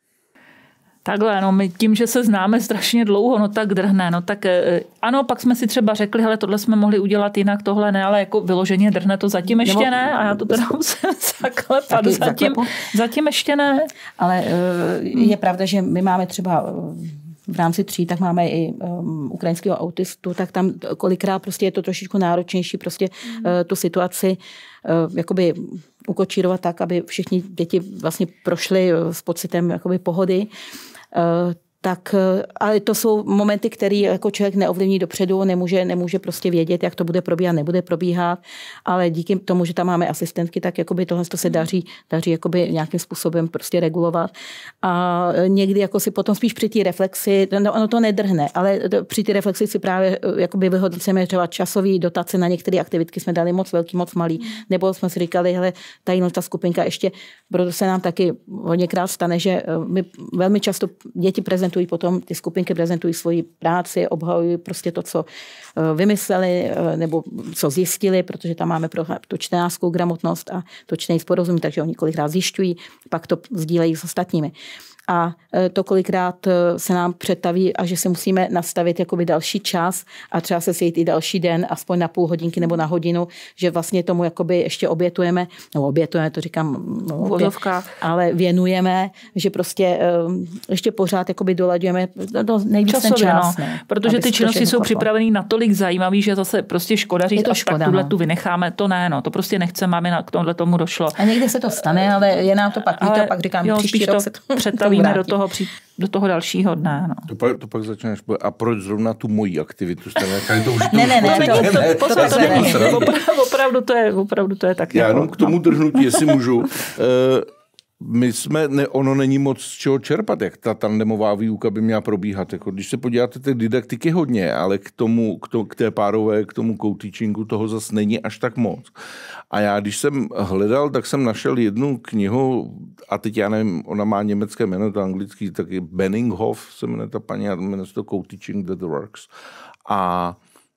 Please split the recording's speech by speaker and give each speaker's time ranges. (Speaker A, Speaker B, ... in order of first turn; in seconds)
Speaker A: 1.1-13.9, 87.2-87.9, 92.9-101.2, 103.0-107.3, 110.8-116.4
Speaker B: 9.6-10.6, 11.9-12.7, 14.2-30.5, 31.1-44.3, 44.8-74.5, 75.1-95.1, 97.4-98.1, 101.2-105.4, 110.9-113.1
Speaker C: 107.3-113.1, 114.9-117.5, 118.0-128.9, 129.5-139.3, 139.9-140.4